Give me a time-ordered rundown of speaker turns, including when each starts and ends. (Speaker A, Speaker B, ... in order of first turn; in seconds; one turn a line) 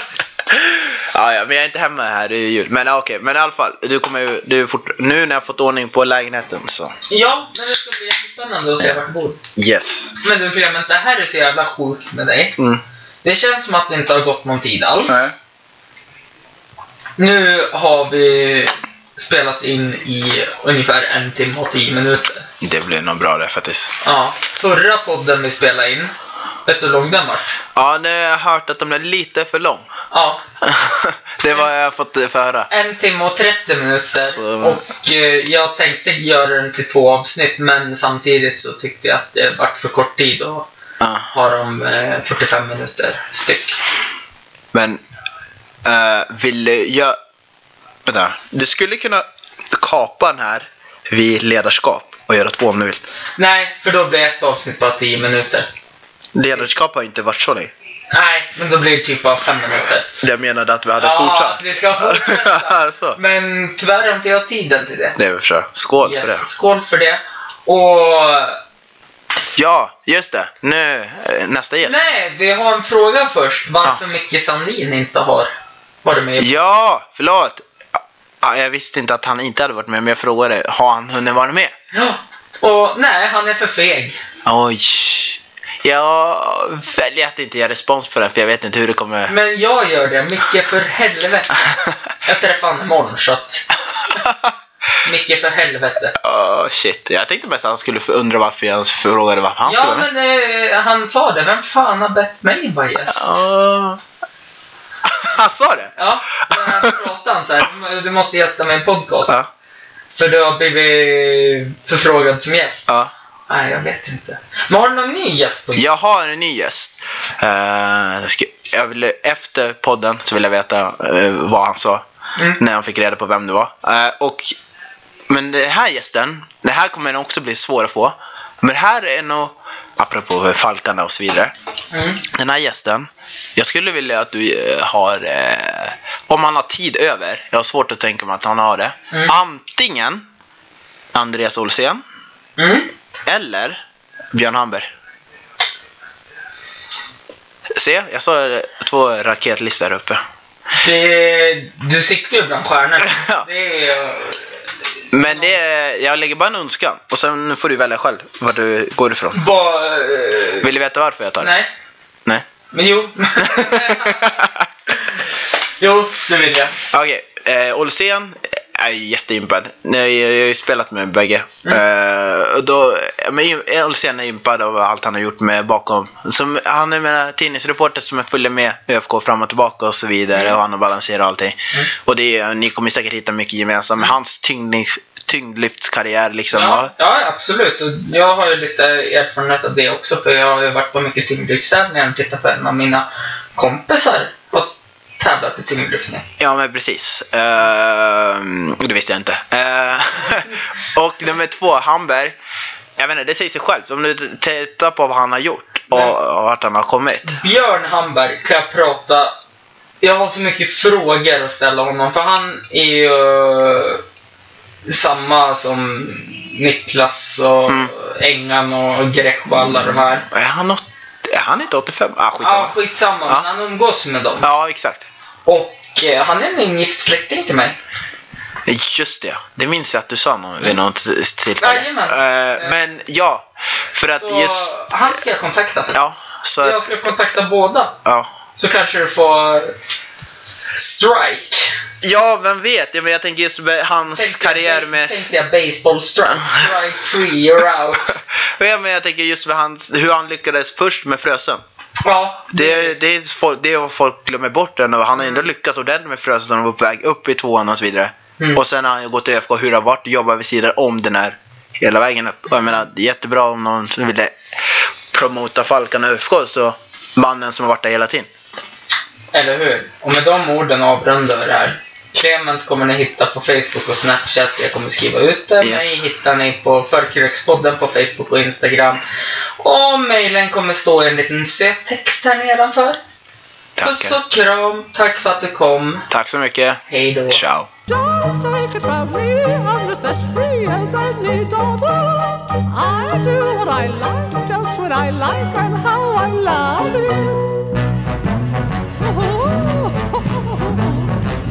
Speaker A: 0.5-7.0
Speaker B: 7.1-9.4
Speaker A: 9.6-10.1
Speaker B: 10.2-12.6
Speaker A: 12.6-12.8
Speaker B: 13.2-15.3
Speaker A: 15.1-15.3
Speaker B: 17.2-22.5
Speaker A: 22.6-23.9
Speaker B: 24.0-26.1
Speaker B: 26.7-27.6
Speaker A: 27.8-29.9
Speaker B: 30.1-30.4
Speaker A: 30.6-32.7
Speaker B: 32.7-40.7
Speaker A: 34.2-34.8
Speaker A: 41.0-41.3
Speaker B: 41.3-43.8
Speaker A: 44.7-45.0
Speaker A: 45.8-47.2
Speaker A: 48.1-53.0
Speaker B: 53.4-55.7
Speaker A: 56.4-57.7
Speaker B: 58.1-60.2
Speaker A: 60.2-63.2
Speaker B: 61.0-65.2
Speaker A: 65.2-66.5
Speaker B: 66.0-68.6
Speaker A: 69.5-72.1
Speaker B: 71.8-75.5
Speaker B: 76.0-76.5
Speaker A: 76.4-77.6
Speaker A: 78.4-81.8
Speaker B: 81.9-84.2
Speaker A: 84.5-89.3
Speaker B: 89.3-91.6
Speaker B: 92.2-93.7
Speaker A: 94.1-94.5
Speaker B: 95.0-96.2
Speaker A: 96.2-100.1
Speaker B: 99.6-103.4
Speaker A: 103.1-104.0
Speaker A: 105.0-107.0
Speaker B: 106.0-109.4
Speaker B: 110.1-112.9
Speaker B: 113.5-115.9
Speaker A: 115.8-122.0
Speaker A: 122.6-124.5
Speaker A: 125.3-131.5
Speaker B: 131.9-132.2
Speaker A: 132.2-140.3
Speaker A: 141.1-142.0
Speaker B: 142.6-142.9
Speaker A: 143.3-143.8
Speaker A: 144.3-144.9
Speaker A: 147.8-150.2
Speaker B: 150.8-154.6
Speaker A: 153.0-153.5
Speaker A: 155.1-159.4
Speaker B: 155.2-155.6
Speaker B: 159.3-160.7
Speaker A: 160.6-161.5
Speaker B: 161.4-161.7
Speaker B: 162.7-164.5
Speaker A: 163.4-164.7
Speaker B: 165.8-166.8
Speaker A: 166.9-186.9
Speaker B: 186.5-196.2
Speaker A: 196.4-202.4
Speaker A: 203.0-207.4
Speaker B: 207.3-209.4
Speaker B: 210.0-214.0
Speaker B: 214.8-220.3
Speaker A: 219.6-222.8
Speaker B: 222.4-224.5
Speaker A: 224.4-225.1
Speaker B: 225.5-227.8
Speaker A: 228.7-234.8
Speaker B: 231.6-232.8
Speaker B: 234.1-236.0
Speaker A: 235.9-237.0
Speaker B: 236.6-238.0
Speaker B: 238.6-239.8
Speaker B: 240.7-241.7
Speaker A: 242.0-245.1
Speaker B: 244.2-248.2
Speaker A: 246.3-246.7
Speaker A: 248.1-251.6
Speaker B: 252.0-253.0
Speaker A: 252.5-268.3
Speaker B: 269.3-279.0
Speaker A: 275.6-276.0
Speaker B: 279.6-283.0
Speaker A: 283.8-284.2
Speaker B: 283.8-286.1
Speaker A: 286.1-287.7
Speaker B: 286.9-287.4
Speaker C: 287.9-297.6
Speaker C: 299.0-301.1